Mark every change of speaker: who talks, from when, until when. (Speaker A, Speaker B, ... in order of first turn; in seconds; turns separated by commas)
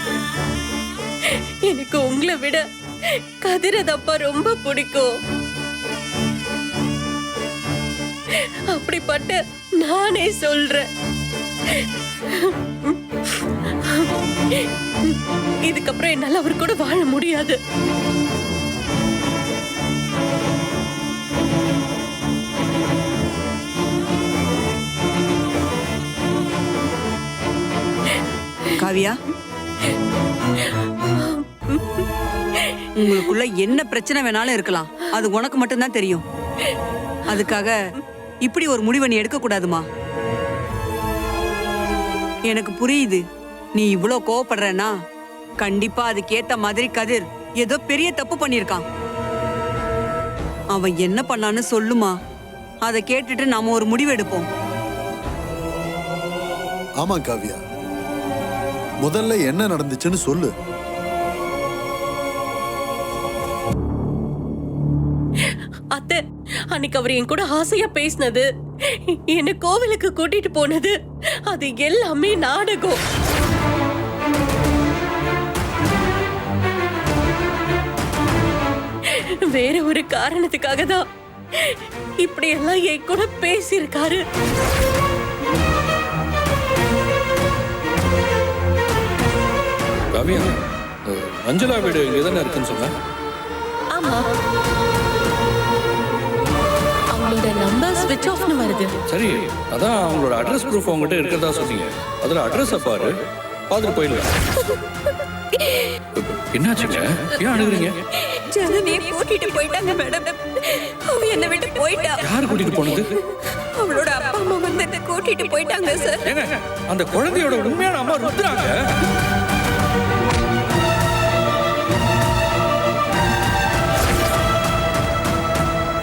Speaker A: 1.2-5.1, Speaker A: 8.3-10.8, Speaker A: 11.7-17.6, Speaker B: 28.8-29.2, Speaker A: 30.6-33.3, Speaker B: 33.0-36.2, Speaker B: 37.3-37.8, Speaker A: 37.3-37.5, Speaker B: 38.4-39.8, Speaker B: 42.5-43.2, Speaker B: 43.8-44.9, Speaker B: 45.6-48.8, Speaker B: 50.7-52.1, Speaker B: 52.8-54.5, Speaker C: 57.0-57.6, Speaker C: 59.0-60.5, Speaker A: 65.4-66.2, Speaker A: 66.7-70.9, Speaker A: 71.5-73.0, Speaker A: 79.0-81.0, Speaker A: 81.5-84.2, Speaker D: 90.1-90.5, Speaker D: 91.0-92.9, Speaker A: 93.9-94.4, Speaker A: 97.1-99.0, Speaker D: 99.1-103.2, Speaker D: 103.7-104.3, Speaker E: 105.5-105.9, Speaker D: 106.2-108.0, Speaker E: 108.3-112.2, Speaker D: 112.2-113.1, Speaker E: 113.5-116.3, Speaker D: 116.2-118.8